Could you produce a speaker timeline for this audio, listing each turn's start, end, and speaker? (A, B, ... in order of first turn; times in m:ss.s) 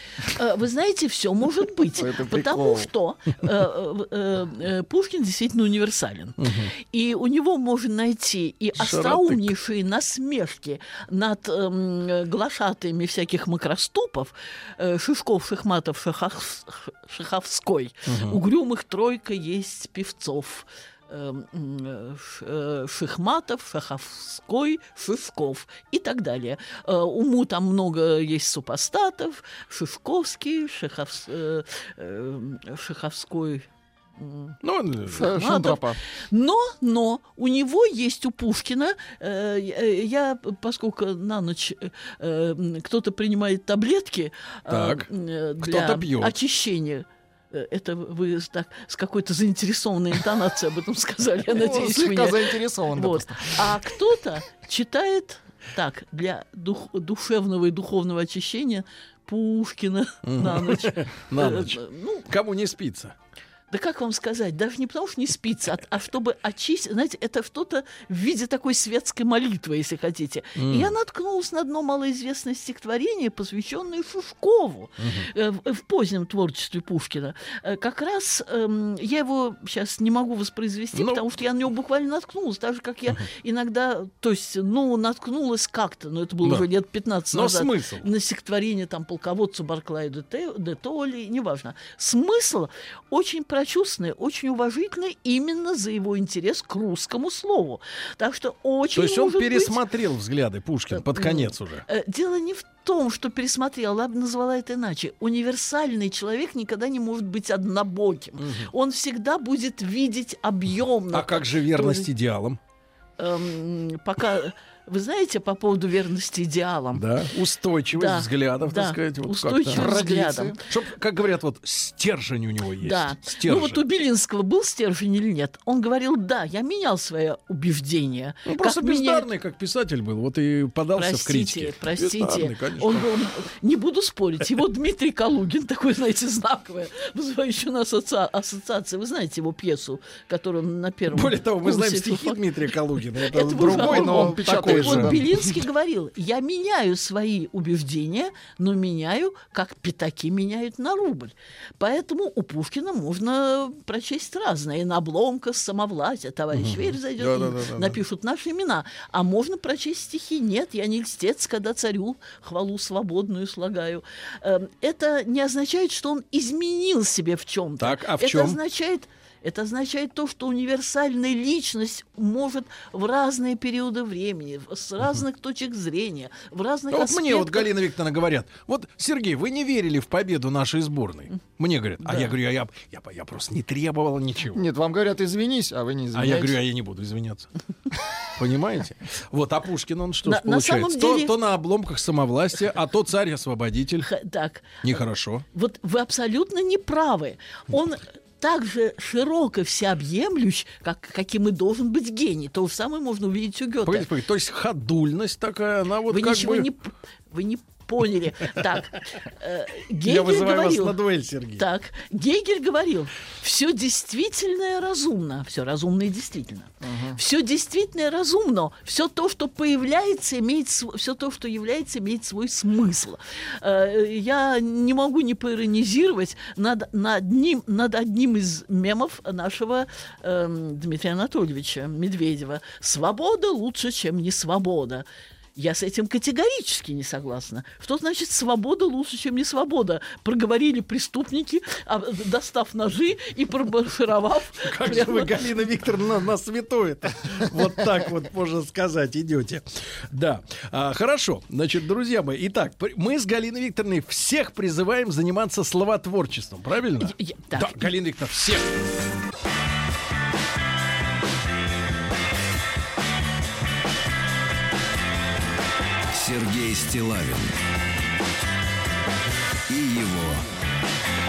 0:00.2-0:34.5 A
0:02.0-0:02.9 B
0:06.4-0:06.7 C
0:08.8-0:09.5 C
0:18.1-0:18.4 C
0:34.6-0:35.4 C
0:35.1-1:02.3 A
0:35.1-0:36.0 B
0:44.7-0:45.1 C
0:45.6-0:46.4 C
0:51.5-0:53.7 B
1:00.2-1:03.2 C
1:03.7-1:39.8 A
1:10.6-1:10.9 C
1:15.0-1:15.3 C
1:20.9-1:21.2 C
1:27.3-1:28.1 C
1:39.0-1:41.8 C
1:41.1-1:52.1 A
1:48.4-1:48.7 C
1:51.1-1:52.6 C
1:53.2-1:57.1 A
1:56.9-1:59.9 C
1:57.9-2:00.6 A
1:59.7-2:00.6 B
2:00.7-2:03.8 C
2:02.8-2:09.3 A
2:08.5-2:13.1 C
2:11.0-2:22.5 A
2:21.1-2:25.5 C
2:23.2-2:57.7 A
2:23.6-2:25.2 B
2:36.5-2:38.0 C
2:47.8-2:48.6 C
2:56.9-3:04.6 C
3:02.1-3:02.3 A
3:04.6-3:06.6 B
3:06.1-3:07.5 C
3:08.4-3:14.1 C
3:10.2-3:11.4 A
3:14.0-3:14.8 A
3:14.8-3:15.4 C
3:15.5-3:24.1 A
3:23.8-3:26.7 C
3:26.1-3:31.0 A
3:30.0-3:31.7 C
3:31.6-4:05.4 A
3:36.8-3:37.2 B
4:04.6-4:18.7 C
4:17.0-4:17.9 A
4:26.1-4:27.6 D
4:29.7-4:30.5 D